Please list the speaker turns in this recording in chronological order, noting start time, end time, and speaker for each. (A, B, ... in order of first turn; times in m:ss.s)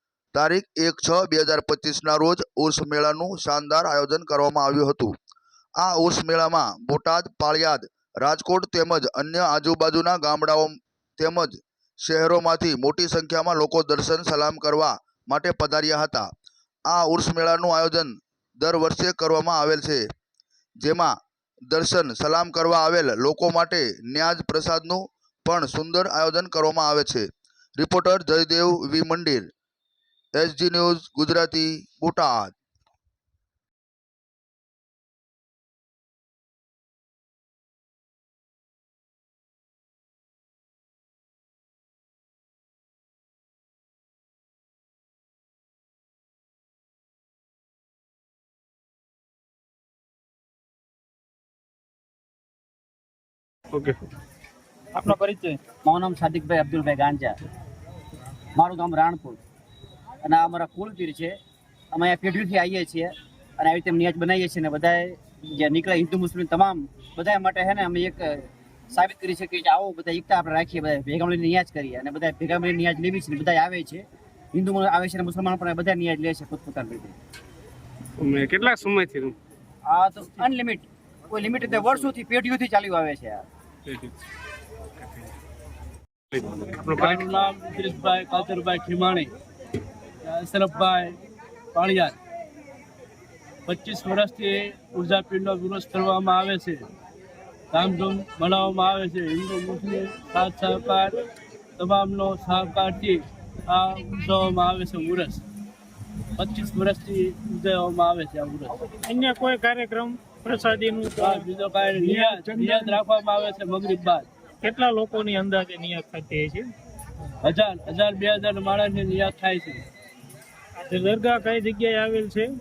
0:00.3-0:05.1 A
0:05.8-0:16.2 A
0:16.9-0:20.0 A
0:20.8-0:21.1 A
0:21.7-0:27.3 A
0:27.8-0:29.5 A
0:30.4-0:32.5 A
0:55.8-0:57.3 B
0:58.6-0:59.4 B
1:00.2-1:01.4 B
1:01.9-1:17.1 B
1:18.2-1:19.3 C
1:19.9-1:23.4 B
1:26.3-1:27.2 C
1:27.0-1:29.3 D
1:30.2-1:31.2 D
1:31.7-1:32.2 D
1:33.6-1:36.9 D
1:37.7-1:41.2 D
1:41.8-1:45.4 D
1:46.4-1:48.9 D
1:49.1-1:51.3 E
1:51.2-1:54.3 D
1:54.6-1:56.6 E
1:57.4-1:59.8 D
2:00.8-2:02.4 E